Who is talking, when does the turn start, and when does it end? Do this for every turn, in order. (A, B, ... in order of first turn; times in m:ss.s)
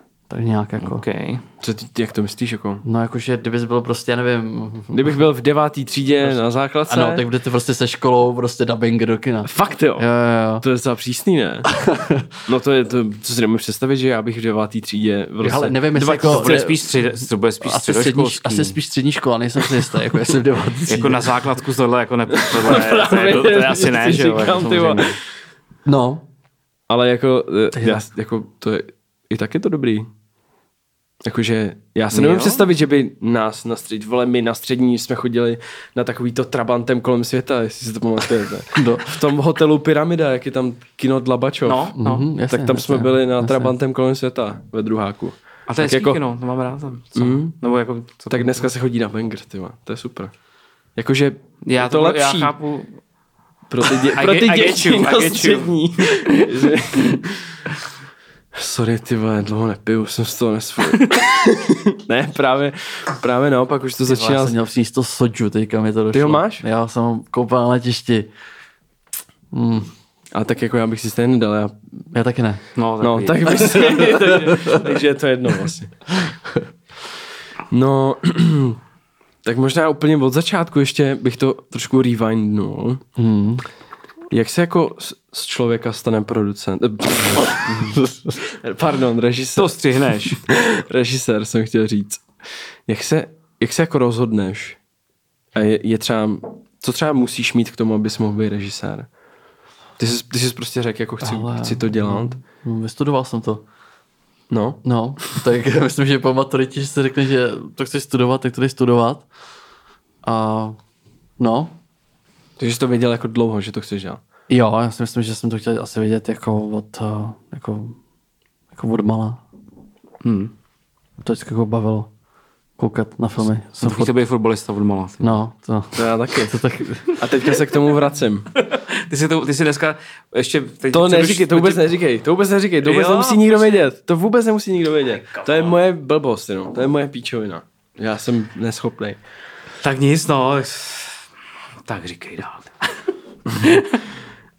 0:00.3-0:01.0 A
0:00.8-0:01.4 B
0:01.6-0:02.8 C
0:02.8-0:05.1 A
0:04.9-0:07.3 C
0:06.9-0:10.6 A
0:09.4-0:10.1 C
0:10.6-0:11.7 C
0:11.7-0:12.3 A
0:12.4-0:16.6 C
0:15.4-0:17.0 A
0:15.9-0:18.8 B
0:17.6-0:21.4 A
0:20.9-0:25.2 B
0:22.3-0:25.2 C
0:25.8-0:26.2 A
0:26.9-0:30.1 C
0:27.7-0:28.0 A
0:31.2-0:41.9 C
0:32.1-0:32.6 B
0:38.7-0:39.2 A
0:41.6-0:42.2 B
0:42.0-0:43.7 A
0:42.5-0:46.2 C
0:45.7-0:48.6 B
0:47.1-0:47.5 C
0:48.3-0:50.3 C
0:51.0-0:52.5 C
0:51.6-0:52.9 B
0:53.7-0:57.6 C
0:54.1-0:56.5 B
0:58.5-1:04.6 C
1:04.0-1:08.3 A
1:06.1-1:06.6 C
1:09.5-1:09.9 A
1:10.3-1:11.8 C
1:12.1-1:12.6 A
1:12.7-1:13.9 B
1:13.0-1:15.9 C
1:14.3-1:14.8 A
1:16.2-1:16.6 A
1:17.7-1:18.8 C
1:19.4-1:23.0 C
1:23.2-1:23.6 A
1:24.3-1:29.8 C
1:27.7-1:28.0 B
1:27.9-1:28.4 A
1:29.6-1:30.4 B
1:30.3-1:32.2 C
1:32.9-1:34.8 C
1:35.5-1:39.1 C
1:40.0-1:42.4 C
1:41.2-1:43.6 A
1:44.5-1:44.8 C
1:44.8-1:49.3 A
1:50.2-1:50.8 A
1:51.4-1:51.7 A
1:52.6-1:54.2 C
1:54.5-1:58.0 A
1:58.7-1:59.4 A
2:00.2-2:00.5 B
2:01.2-2:02.1 A
2:02.8-2:04.1 A
2:03.8-2:05.4 B
2:05.2-2:07.2 A
2:06.0-2:08.5 C
2:08.6-2:11.9 B
2:10.9-2:19.2 C
2:12.8-2:13.5 B
2:15.3-2:15.7 B
2:19.8-2:21.2 B
2:21.8-2:22.9 B
2:23.5-2:24.0 B